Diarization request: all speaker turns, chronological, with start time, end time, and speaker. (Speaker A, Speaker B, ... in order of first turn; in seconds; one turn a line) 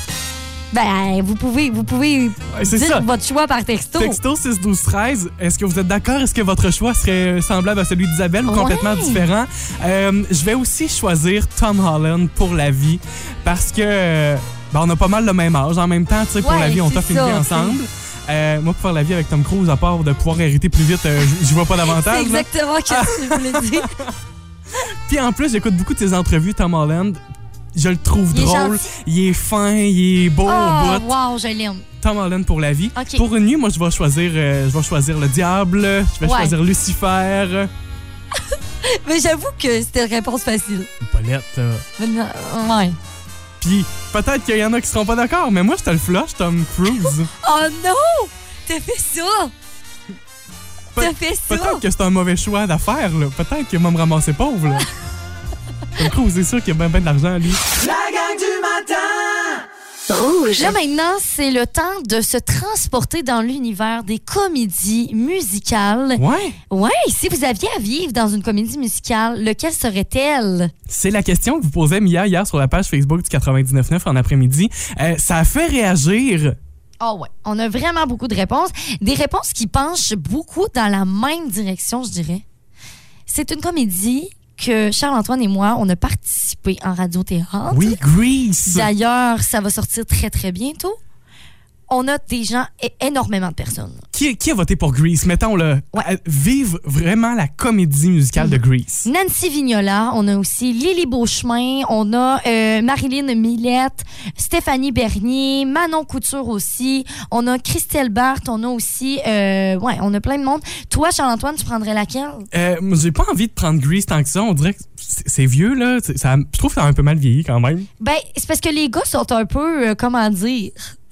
Speaker A: 0.7-4.2
Speaker B: 2.5-3.1
Speaker B: 4.0-24.1
Speaker A: 8.5-9.2
Speaker A: 16.4-17.8
Speaker A: 21.9-23.9
Speaker B: 25.1-27.2
Speaker B: 27.8-31.1
Speaker A: 28.3-28.9
Speaker A: 30.4-31.9
Speaker B: 32.0-37.7
Speaker A: 33.0-33.2
Speaker A: 36.2-36.5
Speaker A: 38.5-40.9
Speaker B: 41.0-41.9
Speaker A: 42.0-43.0
Speaker B: 43.6-47.3
Speaker A: 47.4-49.5
Speaker B: 51.0-54.9
Speaker A: 51.0-51.8
Speaker B: 56.0-57.6
Speaker C: 57.8-60.7
Speaker A: 60.6-70.7
Speaker B: 66.2-66.6
Speaker B: 70.9-76.6
Speaker A: 77.0-82.4
Speaker A: 83.3-88.0
Speaker B: 87.7-88.9
Speaker A: 88.7-91.0
Speaker A: 91.9-94.0
Speaker B: 94.1-99.1
Speaker A: 98.4-112.5
Speaker B: 112.5-117.9
Speaker A: 118.0-120.8